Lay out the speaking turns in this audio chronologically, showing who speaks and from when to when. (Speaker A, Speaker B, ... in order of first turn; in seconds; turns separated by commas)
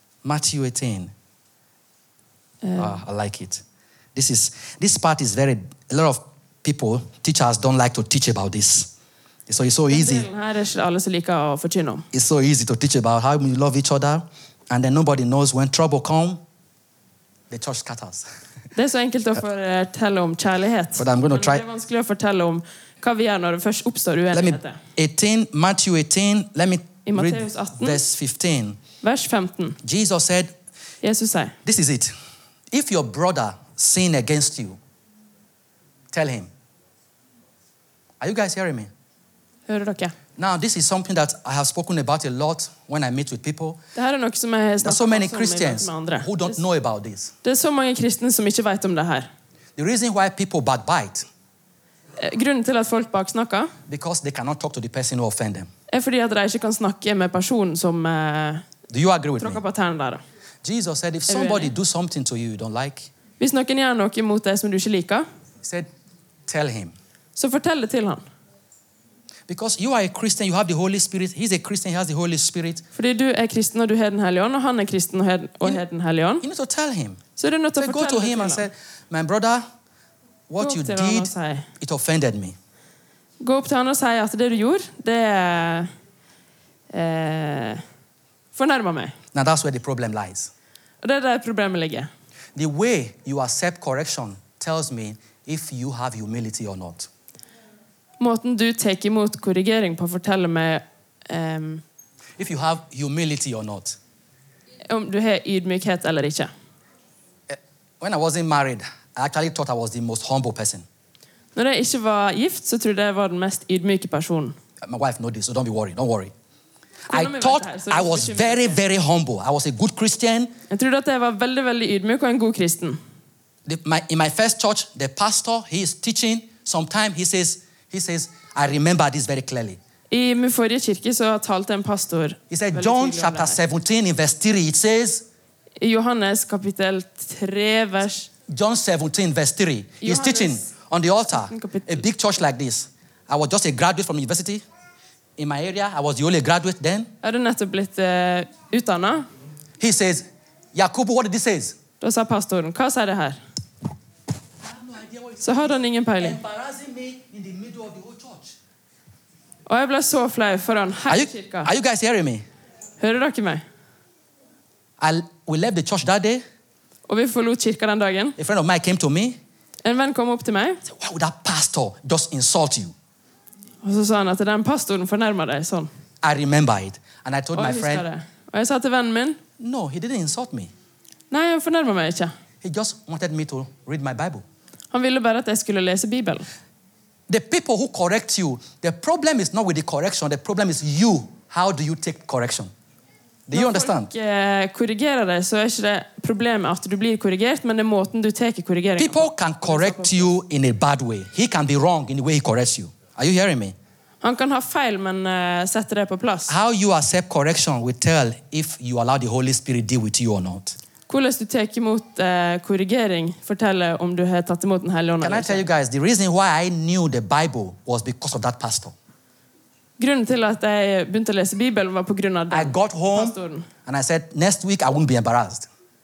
Speaker A: 0.2-1.1, Speaker B: 2.6-2.9, Speaker A: 2.8-3.6, Speaker A: 4.1-8.9, Speaker A: 9.5-10.3, Speaker B: 9.9-12.0, Speaker A: 12.1-16.4, Speaker A: 17.5-18.3, Speaker B: 18.7-24.8, Speaker A: 21.0-21.6, Speaker A: 24.3-28.8, Speaker B: 27.0-28.0, Speaker B: 29.0-29.8, Speaker A: 29.8-30.5, Speaker B: 31.0-31.6, Speaker A: 31.6-32.1, Speaker A: 32.7-34.8, Speaker A: 36.1-36.5, Speaker A: 38.2-38.9, Speaker B: 39.7-40.1, Speaker A: 40.4-43.8, Speaker B: 43.9-46.6, Speaker A: 44.8-47.3, Speaker B: 47.4-49.3, Speaker A: 49.8-51.3, Speaker B: 52.2-53.7, Speaker A: 53.9-55.7, Speaker B: 55.9-58.6, Speaker A: 58.9-59.6, Speaker B: 59.4-60.2, Speaker A: 60.6-63.1, Speaker B: 61.3-61.7, Speaker B: 63.4-65.2, Speaker A: 66.5-66.9, Speaker B: 67.3-68.2, Speaker A: 69.5-72.8, Speaker B: 72.9-76.4, Speaker A: 76.4-77.2, Speaker B: 77.3-78.7, Speaker A: 77.8-79.6, Speaker A: 80.5-82.5, Speaker B: 80.6-81.7, Speaker B: 83.4-85.9, Speaker B: 86.9-87.8, Speaker B: 88.5-89.2, Speaker A: 89.3-90.5, Speaker B: 91.0-92.1, Speaker A: 92.5-97.1, Speaker B: 98.2-101.8, Speaker A: 102.4-104.0, Speaker B: 104.9-106.5, Speaker A: 107.5-110.8, Speaker B: 111.5-114.5, Speaker A: 114.8-116.3, Speaker B: 117.1-118.8, Speaker A: 117.1-120.5, Speaker B: 120.7-123.0, Speaker A: 123.7-129.8, Speaker B: 130.1-133.6, Speaker A: 132.5-135.2, Speaker B: 135.8-138.3, Speaker A: 138.5-144.6, Speaker B: 140.0-140.7, Speaker B: 141.3-142.0, Speaker A: 145.4-147.1, Speaker B: 147.2-149.3, Speaker A: 149.8-151.8, Speaker B: 152.0-153.4, Speaker A: 154.6-158.6, Speaker B: 155.4-156.4, Speaker B: 159.7-161.7, Speaker A: 161.1-162.4, Speaker B: 163.0-163.6, Speaker A: 165.0-166.4, Speaker B: 167.1-168.4, Speaker A: 168.4-169.4, Speaker B: 169.8-170.8, Speaker A: 170.9-172.9, Speaker B: 173.8-175.9, Speaker A: 176.2-178.0, Speaker B: 177.5-179.4, Speaker A: 179.6-180.7, Speaker B: 181.3-182.3, Speaker A: 182.6-184.4, Speaker B: 184.9-186.4, Speaker A: 187.3-192.7, Speaker A: 193.5-194.1, Speaker B: 193.5-200.2, Speaker A: 199.0-203.7, Speaker B: 204.2-206.6, Speaker A: 206.5-210.7, Speaker B: 211.1-215.6, Speaker A: 215.2-218.9, Speaker B: 220.0-223.7, Speaker A: 222.5-225.7